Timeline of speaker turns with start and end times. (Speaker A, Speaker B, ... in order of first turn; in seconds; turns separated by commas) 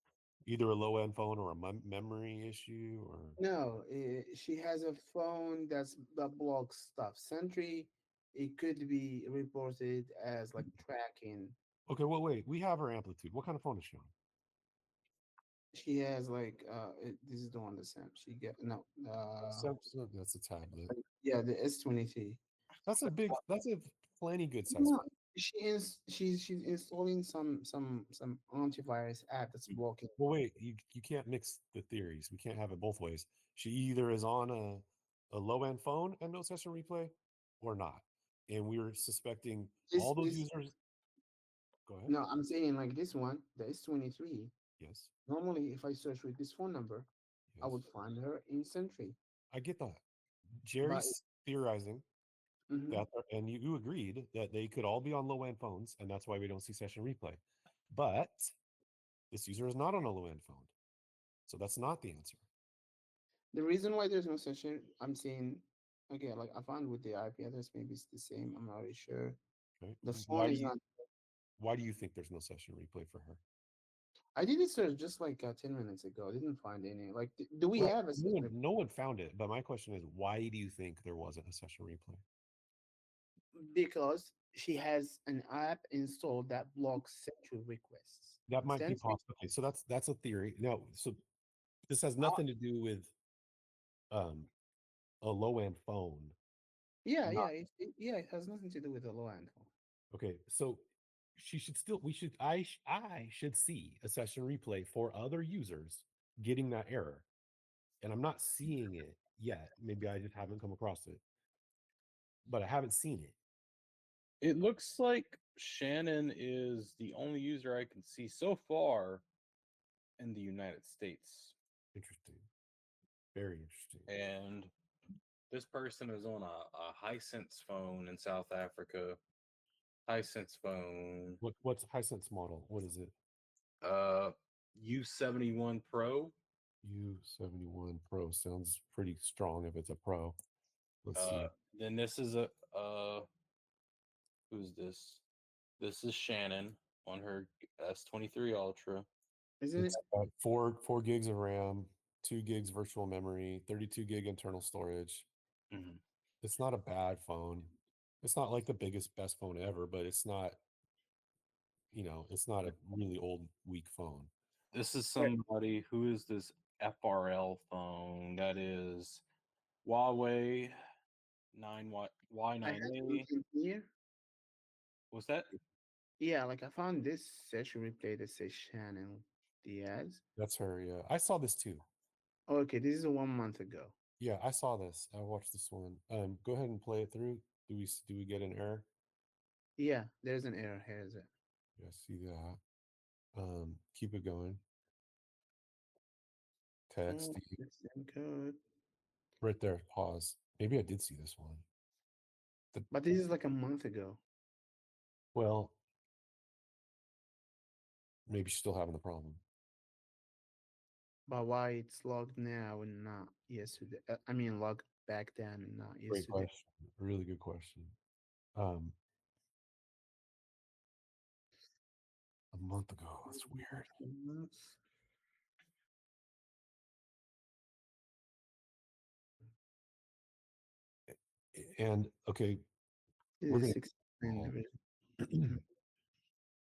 Speaker A: 0.5-3.4, Speaker B: 3.4-11.6, Speaker A: 11.9-14.1, Speaker B: 15.7-19.7, Speaker A: 19.5-20.9, Speaker B: 20.9-22.4, Speaker A: 22.9-25.0, Speaker B: 24.7-30.1, Speaker A: 30.2-40.8, Speaker B: 39.9-40.4, Speaker A: 41.9-42.2, Speaker B: 42.1-44.5, Speaker A: 44.8-45.1, Speaker B: 45.3-47.1, Speaker A: 47.5-47.8, Speaker B: 47.6-49.2, Speaker A: 49.5-50.0, Speaker A: 50.6-52.0, Speaker B: 50.8-51.2, Speaker B: 52.7-53.0, Speaker A: 52.9-58.5, Speaker A: 59.3-60.7, Speaker A: 61.5-62.4, Speaker B: 63.5-69.4, Speaker A: 69.8-70.7, Speaker B: 70.0-70.8, Speaker A: 71.6-73.4, Speaker B: 74.3-78.5, Speaker A: 77.8-82.2, Speaker B: 83.5-89.2, Speaker A: 88.5-91.2, Speaker A: 91.9-93.1, Speaker A: 94.1-94.5, Speaker A: 95.2-96.3, Speaker B: 97.0-99.7, Speaker A: 97.3-97.5, Speaker A: 100.1-100.8, Speaker A: 101.4-107.3, Speaker A: 108.0-111.2, Speaker A: 112.5-113.3, Speaker C: 114.4-119.2, Speaker C: 120.2-121.5, Speaker A: 121.9-122.5, Speaker A: 123.3-124.2, Speaker C: 124.1-124.7, Speaker C: 125.5-129.2, Speaker C: 130.1-131.4, Speaker A: 131.4-133.1, Speaker C: 133.8-136.3, Speaker A: 136.8-140.4, Speaker A: 141.0-141.5, Speaker C: 141.2-143.3, Speaker C: 144.5-145.2, Speaker C: 145.8-149.1, Speaker B: 149.6-150.0, Speaker A: 149.8-155.3, Speaker C: 155.7-156.0, Speaker A: 156.4-160.6, Speaker A: 161.9-164.3, Speaker C: 164.7-169.2, Speaker C: 169.8-170.8, Speaker C: 171.5-173.3, Speaker B: 172.6-173.9, Speaker C: 175.1-175.5, Speaker B: 176.2-180.2, Speaker A: 180.4-181.8, Speaker B: 182.5-183.9, Speaker A: 184.2-188.9, Speaker B: 189.8-191.3, Speaker A: 191.8-192.6, Speaker A: 193.3-194.6, Speaker A: 196.9-197.6, Speaker B: 197.1-198.6, Speaker A: 199.4-201.7, Speaker B: 202.9-204.2, Speaker A: 205.3-205.8, Speaker A: 208.3-209.4, Speaker B: 211.3-216.5, Speaker A: 216.1-218.0, Speaker A: 218.6-219.0, Speaker A: 222.5-223.9, Speaker B: 224.0-224.8, Speaker A: 231.5-232.7, Speaker B: 233.4-234.7, Speaker A: 233.5-234.5, Speaker A: 235.2-235.6